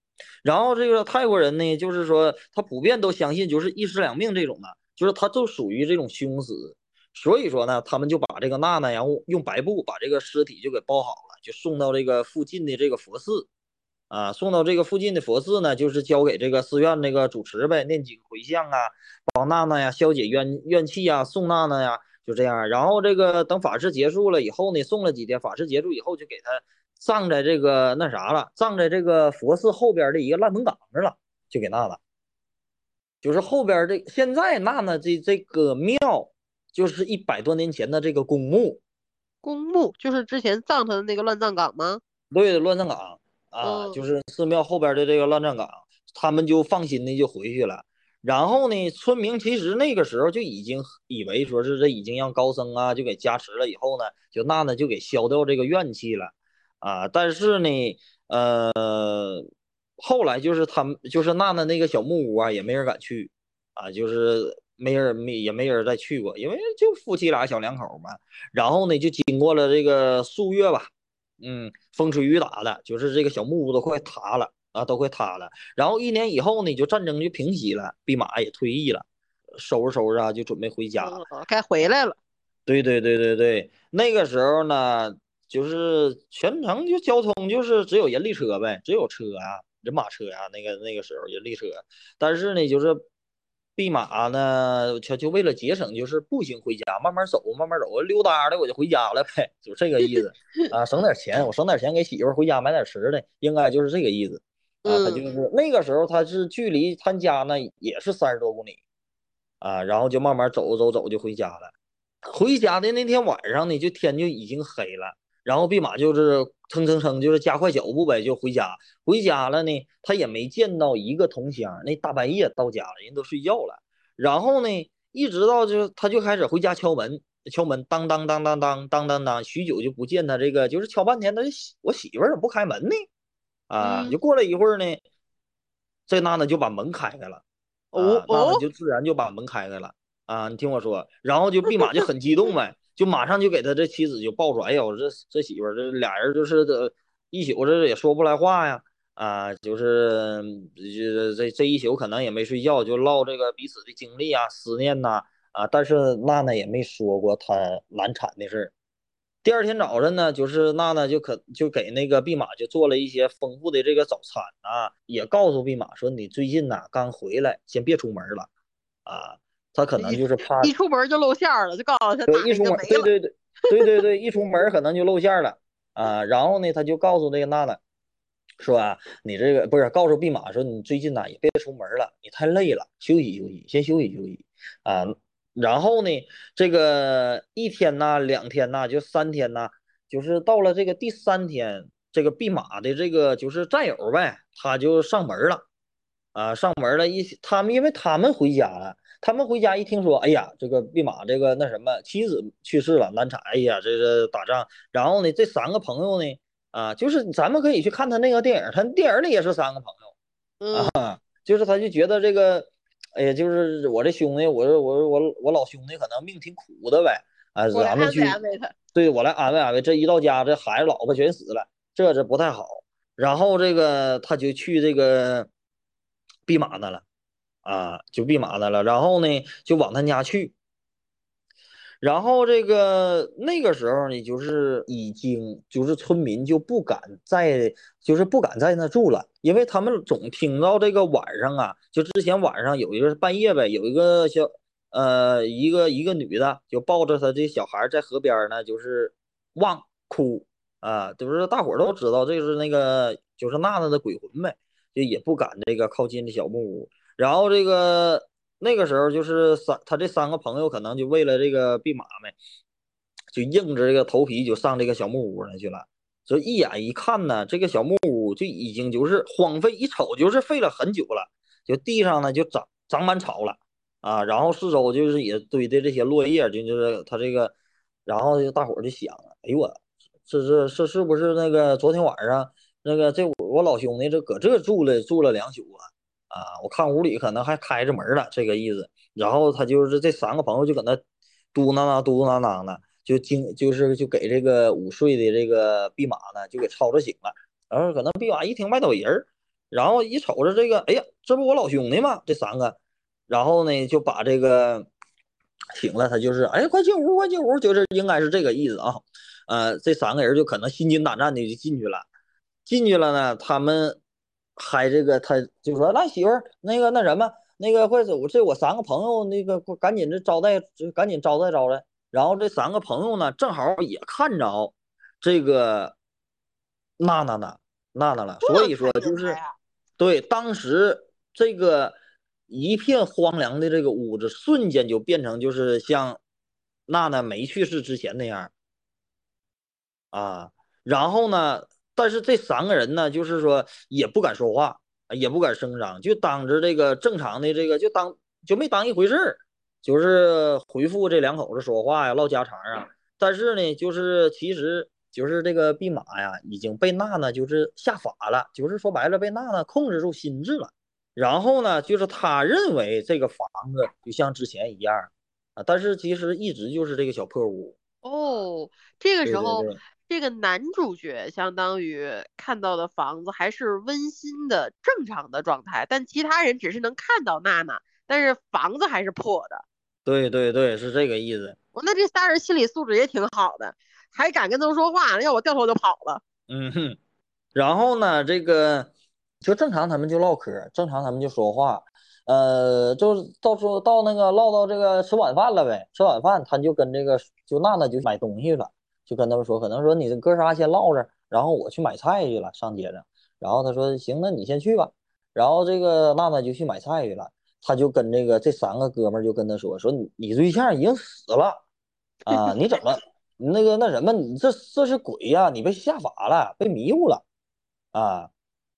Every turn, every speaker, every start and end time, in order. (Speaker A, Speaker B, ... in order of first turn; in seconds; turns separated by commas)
Speaker A: 0.4-13.5, Speaker A: 14.1-32.0, Speaker A: 33.2-38.8, Speaker B: 39.4-42.0, Speaker A: 42.3-59.5, Speaker B: 43.6-44.0, Speaker A: 60.0-79.0, Speaker A: 79.6-81.2, Speaker B: 81.0-82.2, Speaker A: 82.7-93.0, Speaker A: 93.8-108.8, Speaker B: 104.8-105.2, Speaker A: 109.6-111.7, Speaker A: 112.2-133.1, Speaker A: 133.7-135.0, Speaker B: 133.8-134.2, Speaker A: 136.1-137.4, Speaker B: 137.9-138.6, Speaker A: 137.9-158.7, Speaker A: 159.4-168.5, Speaker A: 169.1-170.7, Speaker B: 170.0-173.1, Speaker A: 172.3-177.8, Speaker A: 178.6-195.7, Speaker A: 196.3-210.1, Speaker B: 210.6-210.9, Speaker A: 210.7-218.4, Speaker B: 217.7-218.7, Speaker A: 218.9-225.5, Speaker A: 226.5-227.0, Speaker A: 227.6-230.5, Speaker A: 232.0-262.4, Speaker A: 263.3-277.6, Speaker A: 278.1-291.0, Speaker A: 291.5-302.8, Speaker A: 303.3-304.9, Speaker A: 305.8-312.1, Speaker A: 312.7-314.0, Speaker A: 314.6-326.0, Speaker A: 327.0-329.4, Speaker B: 328.4-329.6, Speaker A: 330.0-332.0, Speaker A: 332.5-336.2, Speaker A: 336.9-338.5, Speaker A: 340.1-367.8, Speaker B: 368.0-379.6, Speaker A: 369.2-369.8, Speaker A: 380.1-381.6, Speaker B: 381.8-386.2, Speaker A: 386.5-387.0, Speaker A: 387.6-388.9, Speaker A: 389.4-411.6, Speaker A: 412.3-417.2, Speaker B: 412.3-412.5, Speaker A: 417.9-418.3